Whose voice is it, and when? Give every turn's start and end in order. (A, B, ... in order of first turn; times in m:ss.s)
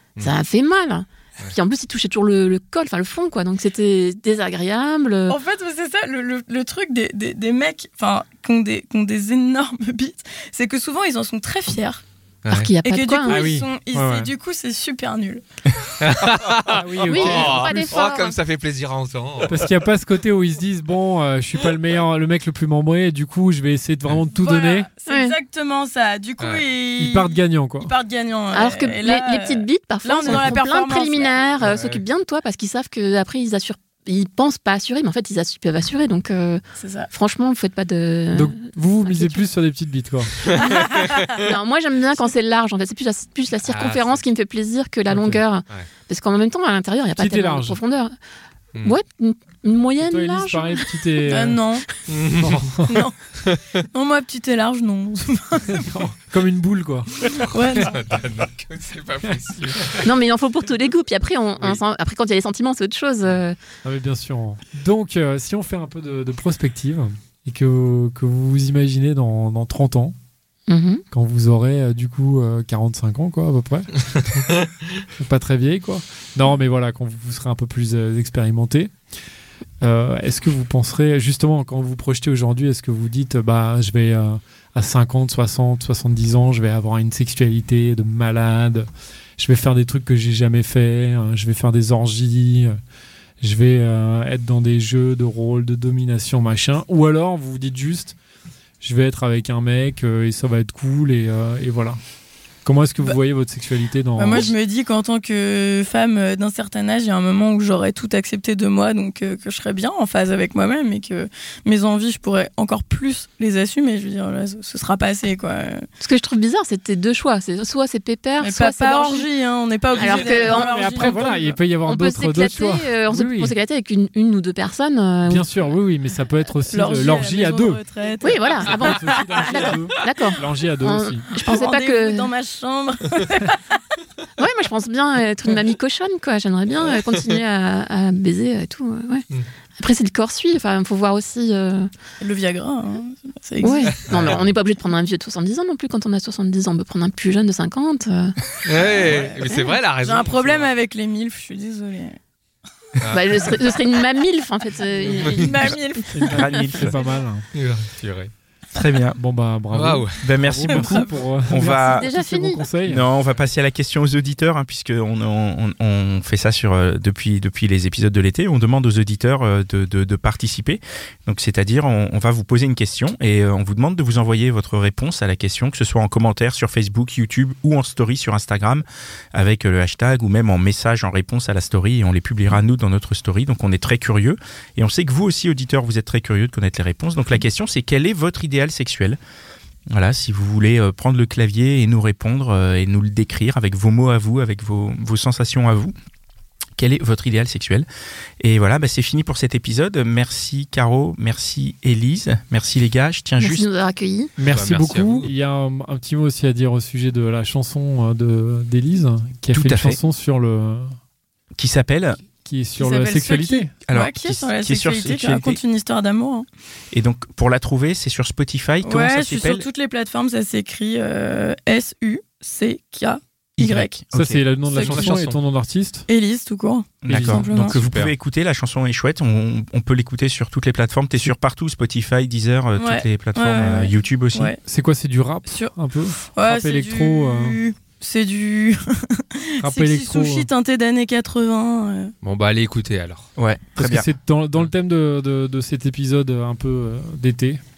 0:00.2-0:05.4 A
0:05.3-0:12.0 B
0:12.4-0:12.7 C
0:12.5-0:13.5 A
0:12.8-0:15.4 B
0:13.3-0:14.3 D
0:16.0-0:19.7 C
0:16.7-0:18.0 D
0:17.1-0:18.4 A
0:19.5-0:24.9 D
0:24.3-0:31.3 B
0:25.1-0:25.4 A
0:26.4-0:26.6 C
0:27.0-0:27.9 D
0:28.5-0:39.4 A
0:31.6-0:32.0 C
0:36.8-0:37.1 B
0:38.3-0:40.4 D
0:40.6-0:41.3 B
0:41.3-0:48.1 A
0:43.7-0:44.2 C
0:45.1-0:45.9 C
0:47.2-0:47.8 D
0:48.8-0:50.8 A
0:50.0-0:51.6 D
0:51.2-0:51.8 B
0:52.1-0:52.7 C
0:52.3-0:53.0 D
0:52.9-0:53.1 B
0:53.8-0:55.9 B
0:55.7-0:57.1 D
0:57.3-0:57.9 B
0:57.4-1:00.1 C
1:00.0-1:03.6 A
1:03.8-1:10.1 D
1:10.7-1:11.0 A
1:11.1-1:14.2 D
1:15.2-1:19.0 D
1:19.8-1:32.8 D
1:33.4-1:38.2 D
1:38.8-1:42.0 D
1:42.6-1:44.5 D
1:44.2-1:55.9 B
1:56.0-1:59.3 A
1:58.4-2:01.6 B
1:59.9-2:01.2 A
2:00.0-2:03.5 D
2:01.8-2:05.5 A
2:05.3-2:07.8 D
2:06.7-2:09.8 B
2:08.2-2:12.3 A
2:08.6-2:11.3 D
2:11.4-2:13.6 B
2:14.4-2:19.2 A
2:19.8-2:21.9 A
2:22.2-2:24.0 B
2:23.6-2:28.4 A
2:24.1-2:24.5 C
2:28.6-2:30.7 C
2:28.7-2:32.2 B
2:33.0-2:33.6 C
2:33.1-2:35.8 A
2:35.0-2:35.4 C
2:35.2-2:37.2 B
2:36.1-2:37.5 D
2:36.2-2:36.9 E
2:37.5-2:38.3 C
2:38.7-2:39.2 E
2:39.2-2:43.0 D
2:39.7-2:40.2 C
2:40.2-2:42.1 E
2:40.8-2:41.3 B
2:41.7-2:42.6 A
2:42.8-3:09.2 E
3:09.9-3:15.9 E
3:16.8-3:17.9 E
3:18.4-3:23.7 E
3:23.4-3:24.3 A
3:24.4-3:30.9 D
3:24.5-3:25.3 C
3:29.5-3:30.0 E
3:31.6-3:32.2 E
3:32.4-3:33.8 D
3:32.8-3:36.5 B
3:33.9-3:35.6 E
3:36.9-3:39.7 E
3:38.8-3:44.0 B
3:43.6-3:45.1 E
3:44.1-3:46.1 D
3:44.7-3:45.2 B
3:44.7-3:45.4 C
3:46.1-3:47.8 B
3:47.0-3:54.5 E
3:47.1-3:47.5 D
3:47.6-3:48.1 C
3:52.8-3:54.6 B
3:54.6-3:57.6 D
3:55.5-4:02.1 B
3:59.6-4:00.5 D
4:02.2-4:03.3 C
4:03.4-4:04.1 E
4:03.8-4:07.6 D